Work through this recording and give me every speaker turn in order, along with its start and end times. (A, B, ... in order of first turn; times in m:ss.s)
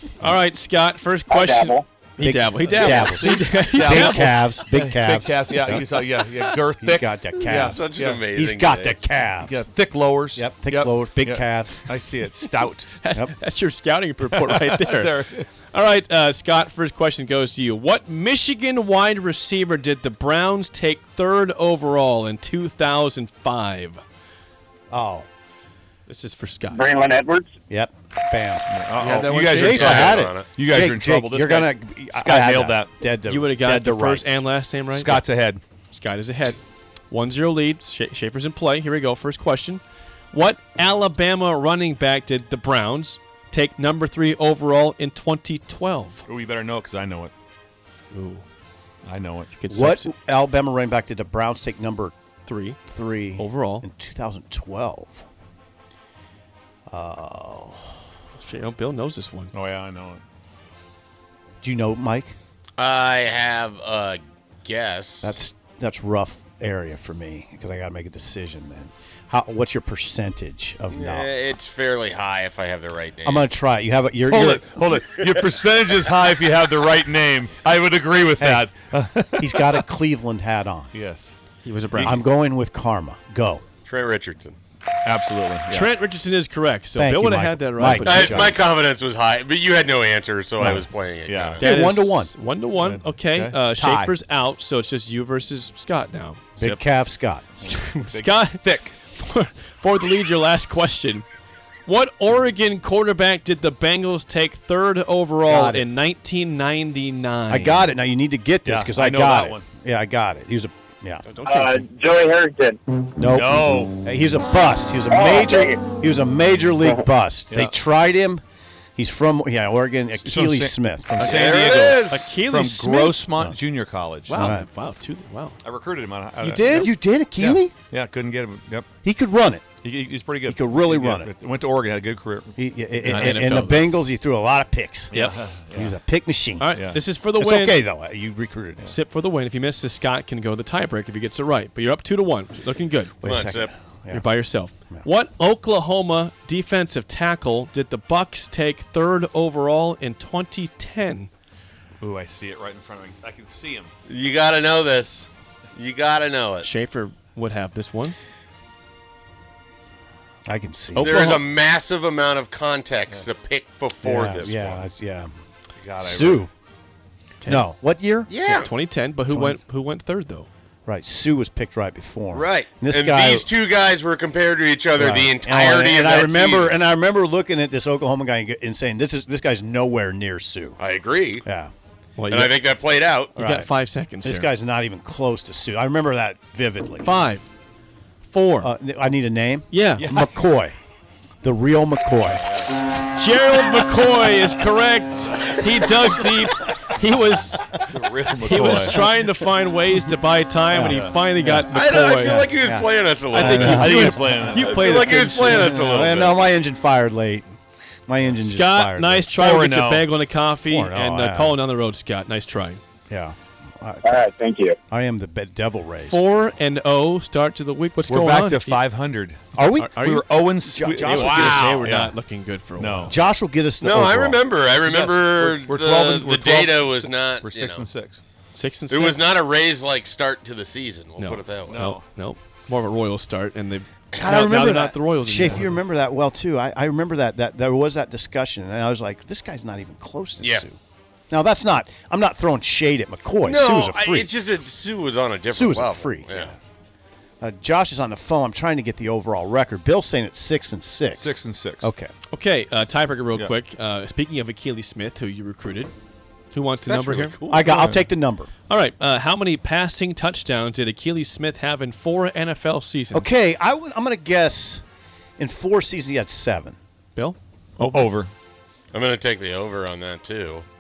0:00.2-0:04.3 A
0:01.3-0:01.9 B
0:02.2-0:05.9 C
0:02.6-0:08.2 D
0:06.8-0:09.7 C
0:07.6-0:09.0 E
0:09.4-0:12.9 D
0:10.4-0:11.8 C
0:13.0-0:15.2 A
0:14.3-0:15.5 D
0:15.7-0:24.0 A
0:24.9-0:25.3 C
0:26.1-0:26.8 A
0:26.7-0:27.5 B
0:27.7-0:28.7 C
0:28.7-0:32.9 D
0:29.0-0:30.0 A
0:29.5-0:30.5 E
0:29.5-0:34.4 C
0:33.3-0:35.2 A
0:34.9-0:35.6 D
0:35.9-0:36.6 A
0:37.1-0:46.2 A
0:46.3-0:47.3 D
0:48.1-0:48.4 A
0:49.0-0:49.5 D
0:49.6-0:50.1 A
0:49.7-0:52.1 C
0:52.5-0:52.8 A
0:52.9-0:55.2 C
0:53.4-0:53.9 A
0:56.9-0:57.9 C
0:58.4-0:59.5 A
0:59.5-1:00.2 D
1:01.6-1:02.4 C
1:02.8-1:05.4 E
1:05.2-1:11.3 C
1:10.9-1:13.5 E
1:13.2-1:15.0 C
1:14.3-1:19.8 D
1:18.4-1:18.7 C
1:19.4-1:20.9 C
1:20.9-1:21.3 D
1:21.6-1:22.2 A
1:22.0-1:23.6 C
1:23.8-1:24.6 E
1:25.0-1:26.0 D
1:25.7-1:28.6 A
1:27.0-1:28.6 C
1:28.0-1:31.7 E
1:30.6-1:30.9 C
1:31.3-1:31.6 D
1:31.6-1:32.3 C
1:31.6-1:36.9 A
1:32.8-1:34.1 D
1:36.6-1:37.8 C
1:37.6-1:41.3 A
1:38.0-1:39.0 D
1:41.9-1:47.9 A
1:45.5-1:45.9 C
1:47.5-1:51.3 C
1:48.6-1:49.7 D
1:51.3-1:51.9 A
1:51.4-1:52.8 B
1:53.2-1:58.4 C
1:53.3-1:54.0 D
1:55.1-1:55.8 B
1:59.0-2:01.4 C
2:00.2-2:04.4 D
2:01.2-2:02.3 E
2:01.2-2:03.2 A
2:04.3-2:05.6 A
2:04.3-2:04.7 C
2:05.6-2:08.9 D
2:06.4-2:06.9 A
2:06.6-2:07.7 C
2:09.0-2:09.7 C
2:09.8-2:12.6 D
2:10.4-2:11.3 C
2:12.6-2:16.7 C
2:13.0-2:13.9 A
2:13.1-2:13.4 D
2:15.1-2:16.0 D
2:16.6-2:17.8 A
2:16.7-2:17.0 D
2:17.4-2:18.9 C
2:18.8-2:23.2 A
2:23.2-2:24.2 C
2:23.2-2:23.7 E
2:24.1-2:31.3 A
2:32.0-2:33.9 D
2:34.1-2:36.7 E
2:36.6-2:38.2 A
2:40.5-2:41.2 C
2:41.0-2:41.4 A
2:41.0-2:44.8 E
2:44.0-2:45.3 C
2:45.8-2:46.4 D
2:46.0-2:46.5 C
2:47.4-2:47.7 A
2:47.4-2:48.4 C
2:48.3-2:48.7 E
2:48.5-2:50.5 A
2:49.3-2:49.6 C
2:50.9-2:53.5 C
2:52.3-2:56.8 E
2:55.0-3:00.8 C
3:00.8-3:01.4 E
3:01.4-3:01.7 C
3:02.2-3:02.5 A
3:02.3-3:03.4 E
3:03.4-3:04.5 A
3:03.4-3:03.7 C
3:04.2-3:07.1 C
3:07.0-3:07.5 A
3:08.2-3:08.7 A
3:08.6-3:10.8 C
3:09.7-3:10.1 A
3:10.0-3:10.4 D
3:11.4-3:12.5 C
3:13.0-3:17.8 A
3:17.9-3:19.0 D
3:18.4-3:22.6 A
3:20.7-3:21.6 C
3:20.9-3:21.2 D
3:21.7-3:23.9 E
3:22.6-3:24.6 C
3:23.3-3:25.7 A
3:23.4-3:24.7 D
3:24.5-3:26.4 E
3:25.4-3:27.5 C
3:28.1-3:29.4 C
3:28.4-3:32.8 A
3:29.3-3:30.1 D
3:30.6-3:31.6 C
3:33.1-3:34.3 C
3:34.0-3:34.8 B
3:34.9-3:36.3 C
3:36.0-3:38.9 A
3:38.1-3:42.2 D
3:39.5-3:41.6 C
3:39.8-3:40.3 A
3:41.0-3:43.2 A
3:41.2-3:41.8 E
3:42.8-3:43.2 D
3:43.1-3:44.4 C
3:43.8-3:47.9 E
3:44.8-3:48.2 D
3:48.6-3:49.2 A
3:48.9-3:51.9 E
3:51.2-3:55.8 A
3:51.7-3:52.0 D
3:54.2-4:00.8 C
4:00.4-4:00.7 E
4:01.3-4:04.3 C
4:03.4-4:06.5 E
4:05.5-4:06.6 C
4:07.4-4:12.1 C
4:11.1-4:11.9 D
4:12.3-4:15.9 A
4:16.5-4:18.1 A
4:16.8-4:17.9 E
4:17.5-4:18.5 C
4:18.7-4:23.3 A
4:23.1-4:24.8 C
4:25.4-4:26.8 C
4:27.2-4:28.1 A
4:27.8-4:28.3 D
4:28.9-4:30.6 E